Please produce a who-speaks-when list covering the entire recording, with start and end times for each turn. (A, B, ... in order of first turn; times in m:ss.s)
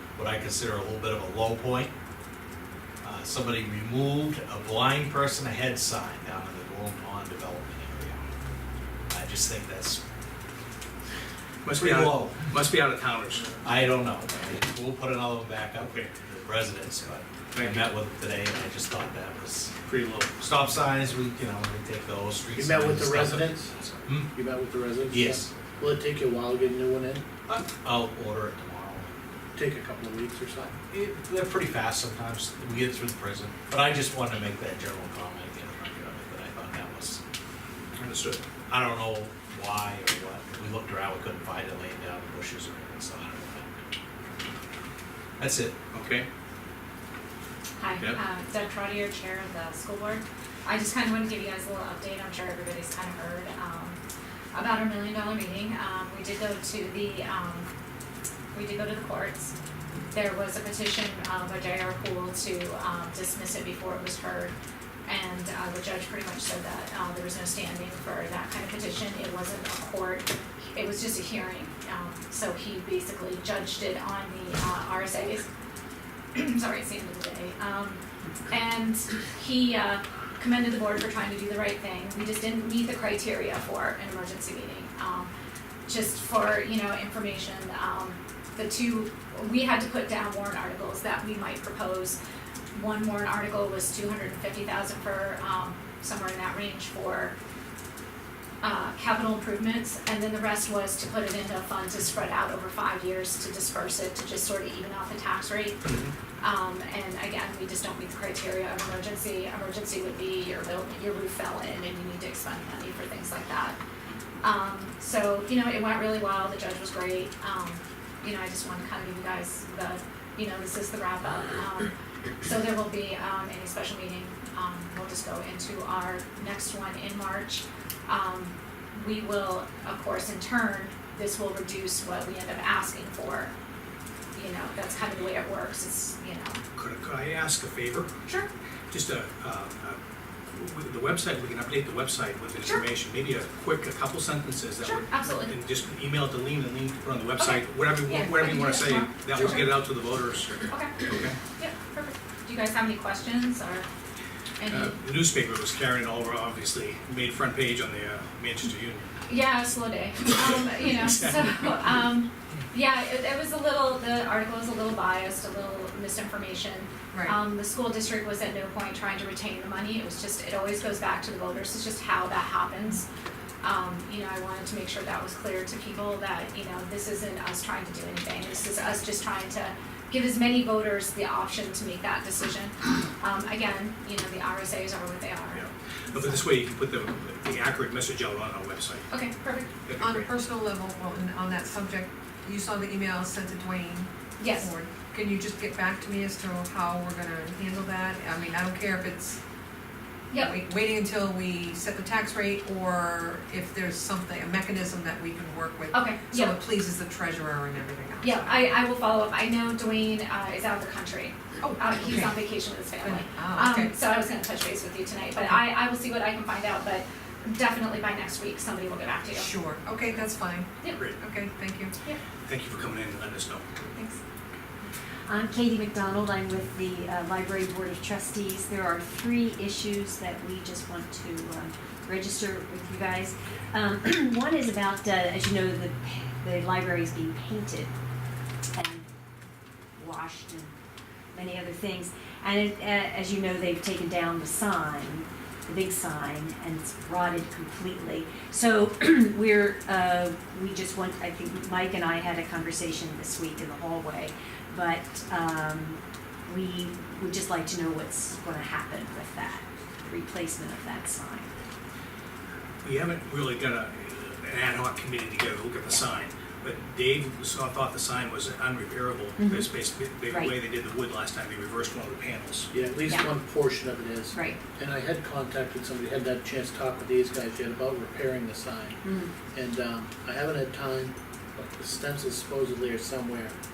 0:00.2-0:01.9 A
0:03.0-0:08.2 A
0:09.1-0:10.0 A
0:11.6-0:13.6 B
0:11.7-0:12.4 A
0:13.6-0:19.7 A
0:17.5-0:17.9 B
0:19.8-0:20.4 B
0:20.4-0:24.4 A
0:22.5-0:23.7 C
0:24.3-0:27.2 C
0:25.1-0:25.5 A
0:27.5-0:29.2 A
0:29.6-0:30.8 C
0:30.9-0:37.2 A
0:38.0-0:38.4 B
0:38.7-0:43.7 A
0:45.4-0:45.8 A
0:45.9-0:46.3 B
0:47.8-0:54.0 D
0:54.5-0:57.7 D
0:58.5-0:59.5 D
1:00.1-1:04.5 D
1:05.0-1:15.5 D
1:16.3-1:25.3 D
1:25.8-1:32.2 D
1:32.7-1:37.3 D
1:38.6-1:45.8 D
1:45.8-1:46.1 B
1:46.4-1:53.8 D
1:54.4-2:01.9 D
2:02.4-2:13.5 D
2:14.3-2:16.6 D
2:16.8-2:18.1 B
2:18.9-2:20.0 B
2:20.6-2:31.4 B
2:24.8-2:25.5 D
2:27.4-2:29.7 D
2:30.6-2:31.0 D
2:31.6-2:33.9 D
2:34.6-2:35.0 D
2:34.7-2:39.1 B
2:39.3-2:53.0 D
2:47.1-2:47.4 E
2:53.6-3:06.4 D
3:05.5-3:09.1 B
3:09.1-3:09.7 D
3:09.8-3:10.3 B
3:10.0-3:19.4 E
3:14.4-3:14.7 D
3:20.3-3:20.6 D
3:20.4-3:28.7 E
3:25.9-3:26.6 D
3:28.2-3:39.5 D
3:31.6-3:32.4 E
3:33.0-3:33.9 E
3:39.3-3:41.9 E
3:42.5-3:43.7 B
3:43.9-3:44.2 D
3:45.3-3:57.9 F
3:58.7-3:59.0 F
4:00.0-4:00.7 F
4:01.3-4:21.5 F
4:22.8-4:32.7 B
4:29.4-4:29.7 F
4:30.3-4:30.6 F
4:32.7-4:39.0 C
4:33.0-4:33.3 F
4:34.3-4:34.6 F
4:39.0-4:39.3 F
4:39.5-4:43.5 C